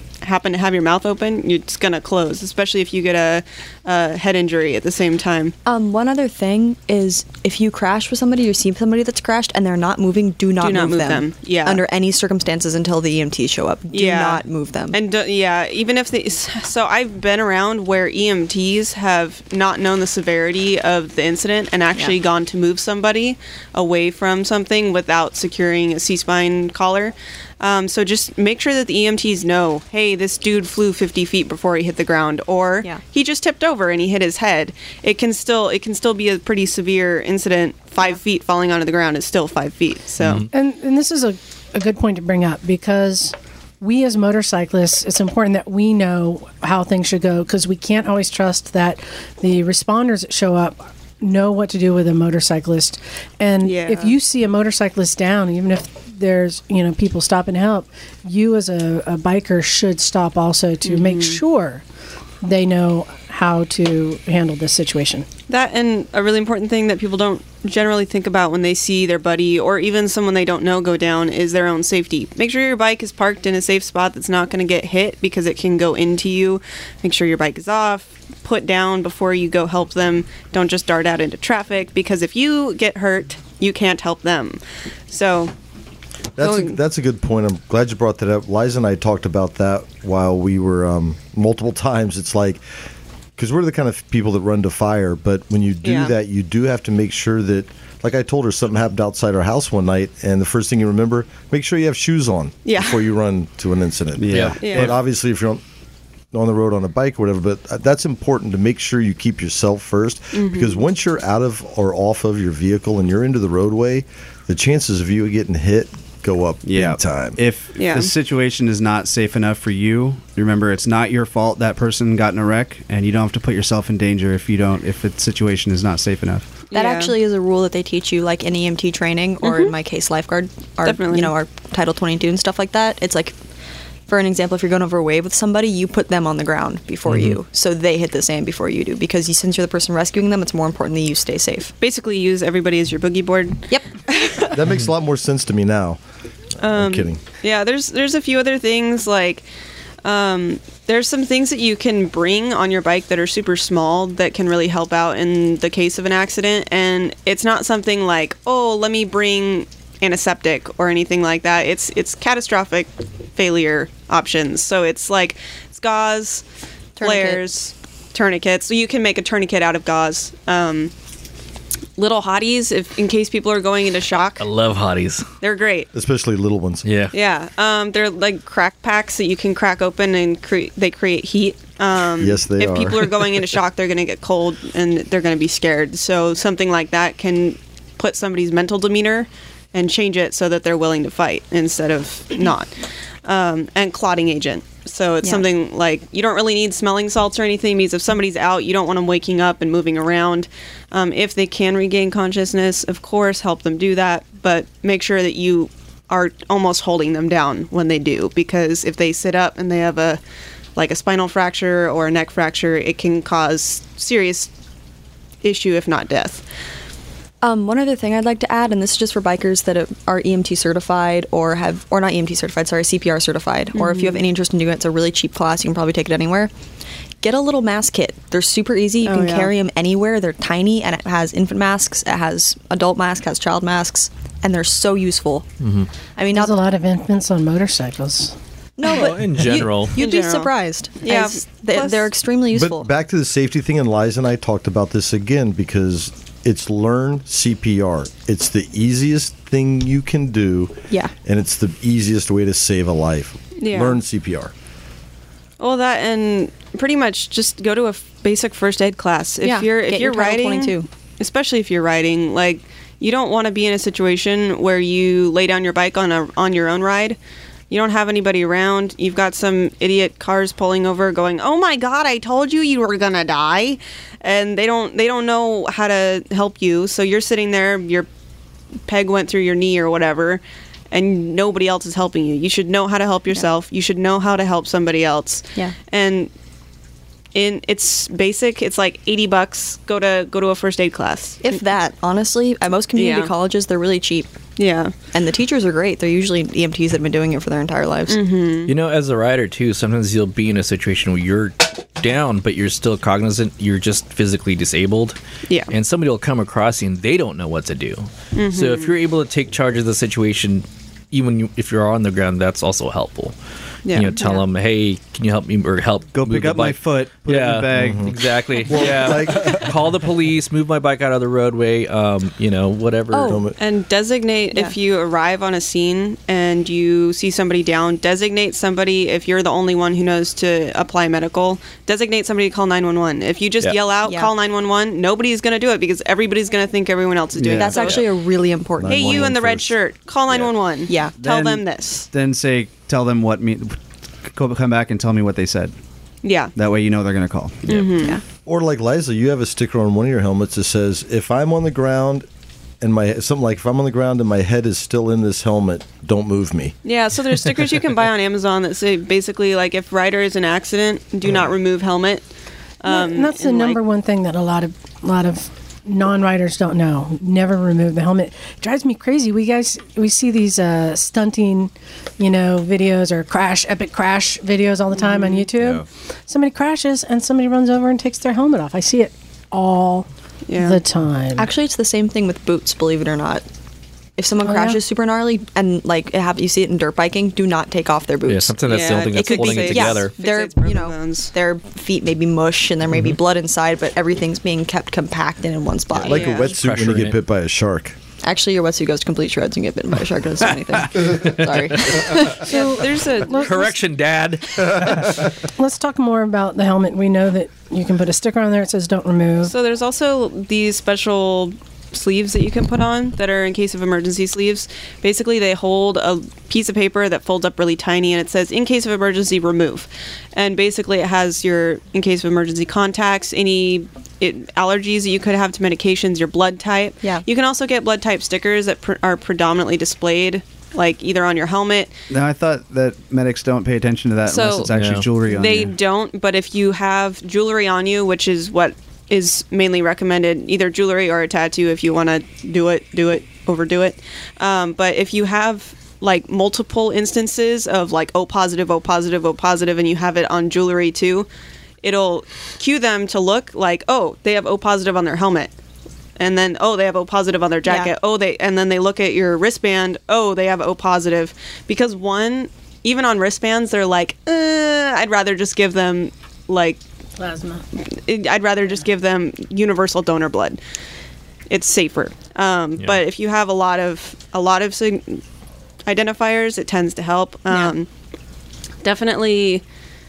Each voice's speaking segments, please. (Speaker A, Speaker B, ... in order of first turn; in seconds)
Speaker A: 0.2-5.5, 10.6-11.8, 13.9-40.5, 53.6-54.1, 60.8-61.4, 65.5-85.5, 86.4-86.8, 95.8-96.1, 102.7-103.0, 104.6-104.9, 110.3-110.8, 117.8-118.1, 126.7-127.2, 129.4-129.7, 130.8-131.4, 141.8-144.6, 146.6-149.4, 150.0-166.4, 167.0-170.9, 172.0-174.5, 175.4-175.9, 177.1-192.7, 193.2-210.2, 210.8-214.5, 215.4-216.4, 223.7-224.3, 229.0-229.5, 239.9-242.1, 253.6-254.0, 255.6-267.2, 267.7-278.1, 278.9-286.3, 287.4-291.6, 292.9-293.4, 294.6-294.9, 298.1-298.7, 308.3-308.9, 313.9-314.3, 323.6-338.1, 338.9-342.1, 346.2-346.5, 347.7-348.2, 356.8-362.3, 362.8-363.8, 375.0-375.5, 380.5-380.8, 388.6-391.3, 396.1-396.5, 402.2-403.7, 409.4-431.9, 434.3-434.7, 435.2-451.3, 451.8-455.5, 456.2-466.8, 468.1-470.6, 471.5-475.2, 475.9-477.9, 478.8-479.6
Speaker B: 5.7-15.0, 126.7-133.3, 134.1-141.7, 167.0-167.4, 217.4-226.5, 227.2-235.5, 236.2-236.6, 238.8-242.9, 259.4-260.9, 291.4-294.3, 295.1-298.2, 323.1-323.5, 334.0-334.3, 337.5-339.3, 340.9-341.2, 381.4-383.4, 384.2-396.4, 398.2-402.4, 427.0-427.3, 457.6-457.9
Speaker C: 40.2-40.5, 104.3-104.6, 137.1-137.4, 174.4-175.3, 176.8-177.1, 235.6-235.9, 238.9-240.0, 298.7-305.2, 305.7-313.4, 313.9-323.4, 337.8-338.0, 388.3-390.1, 395.9-397.2, 400.9-402.3, 403.3-405.2, 434.7-435.1
Speaker D: 40.5-61.8, 62.4-65.3, 236.3-238.3, 362.9-381.5, 384.4-384.8, 402.4-403.8, 405.6-409.5, 467.2-467.6
Speaker E: 86.4-92.6, 93.4-105.6, 106.3-117.4, 144.5-146.0, 146.6-147.2, 175.9-176.9, 182.2-183.2, 242.5-254.5, 317.7-318.1, 318.7-319.7, 323.2-323.6, 338.8-339.8, 348.5-352.3, 352.8-356.8, 396.1-398.0
Speaker F: 104.2-105.0, 116.6-126.5, 316.1-318.1, 337.4-337.8, 341.2-343.8, 344.3-345.7, 346.6-347.7, 432.1-435.7